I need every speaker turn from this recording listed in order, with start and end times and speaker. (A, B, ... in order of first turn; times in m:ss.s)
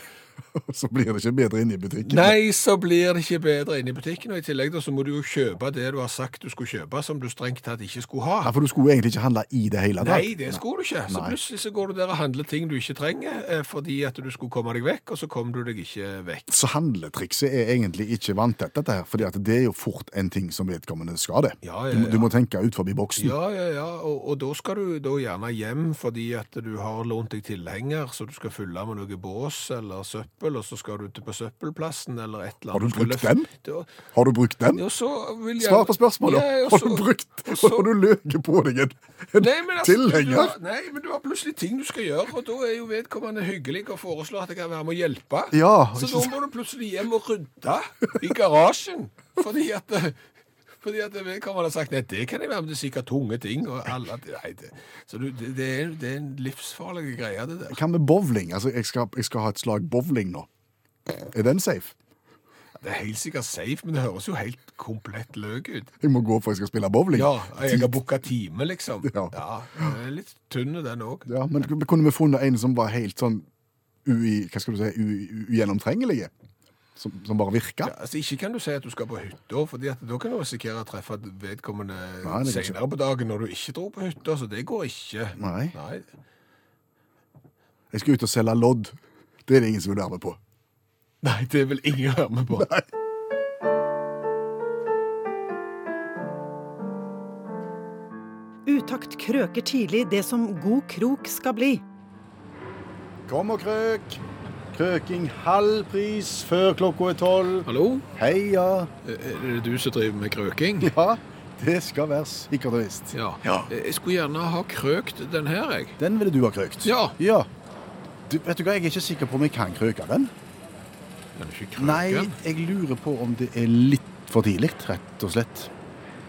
0:00.6-0:02.4 A
0:02.0-0:08.5 B
0:08.4-0:11.4 A
0:10.0-0:16.6 B
0:16.5-0:23.4 A
0:21.6-0:22.3 B
0:23.2-0:33.9 B
0:32.7-0:33.5 A
0:34.1-0:34.8 A
0:34.7-0:37.9 B
0:35.6-0:40.6 A
0:39.4-0:50.2 B
0:45.5-0:46.3 A
0:50.8-0:57.8 B
0:57.7-1:00.5 A
1:01.2-1:02.0 A
1:02.8-1:05.9 B
1:06.0-1:07.9 A
1:07.1-1:11.3 B
1:09.0-1:09.9 A
1:11.3-1:13.5 A
1:14.0-1:16.3 A
1:17.0-1:17.9 A
1:17.8-1:26.0 B
1:22.2-1:22.8 A
1:25.4-1:25.8 A
1:27.9-1:30.4 A
1:31.2-1:32.7 B
1:32.5-1:32.9 A
1:38.7-1:41.8 C
1:43.3-1:48.9 A
1:47.7-1:48.0 B
1:49.0-1:50.9 B
1:50.8-1:53.7 A
1:53.1-1:56.0 B
1:56.0-1:57.5 A
1:56.8-1:57.2 B
1:58.3-2:00.3 A
2:01.4-2:02.4 B
2:01.8-2:05.7 A